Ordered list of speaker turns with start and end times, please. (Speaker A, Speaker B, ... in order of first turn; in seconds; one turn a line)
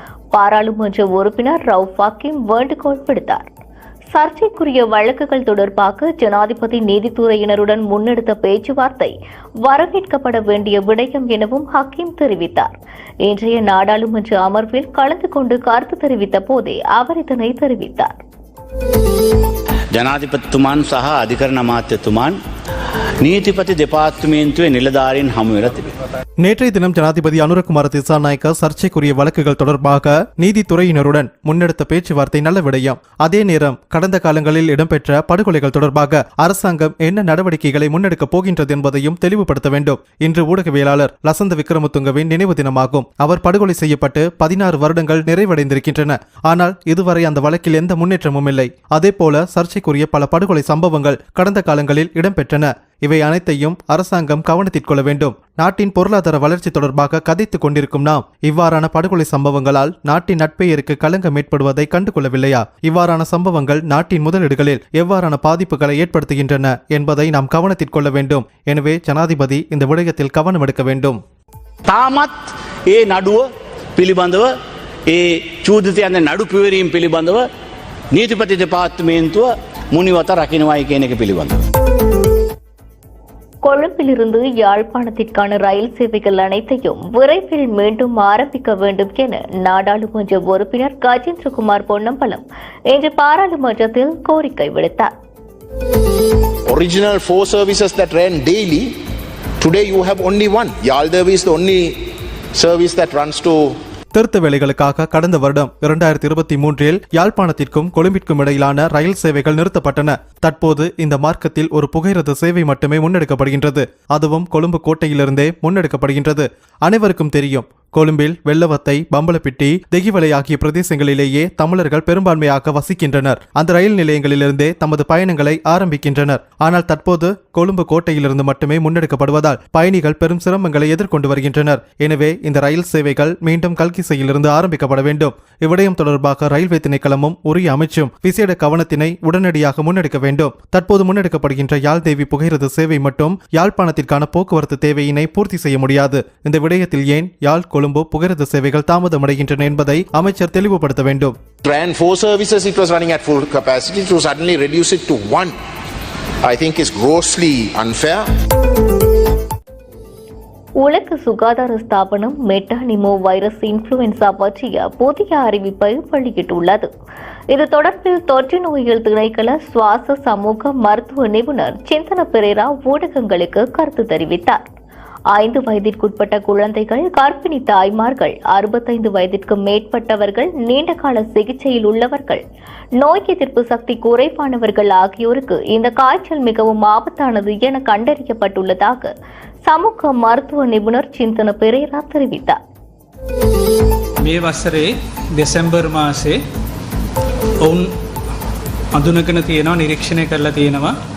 Speaker A: 0.3-3.5
Speaker A: 4.2-12.7
Speaker A: 13.2-18.2
Speaker B: 19.9-22.4
Speaker B: 23.2-25.9
Speaker C: 26.4-71.2
Speaker B: 71.9-74.5
Speaker B: 75.1-77.5
Speaker B: 78.1-81.6
Speaker A: 83.6-95.1
Speaker D: 96.7-99.0
Speaker D: 99.6-102.0
Speaker D: 102.5-103.8
Speaker C: 104.1-151.4
Speaker D: 151.6-155.6
Speaker D: 156.4-158.3
Speaker A: 160.8-166.9
Speaker A: 167.5-174.7
Speaker A: 175.3-182.4
Speaker A: 183.0-189.1
Speaker A: 189.7-192.6
Speaker E: 194.2-196.4
Speaker E: 197.6-197.9
Speaker E: 198.9-200.9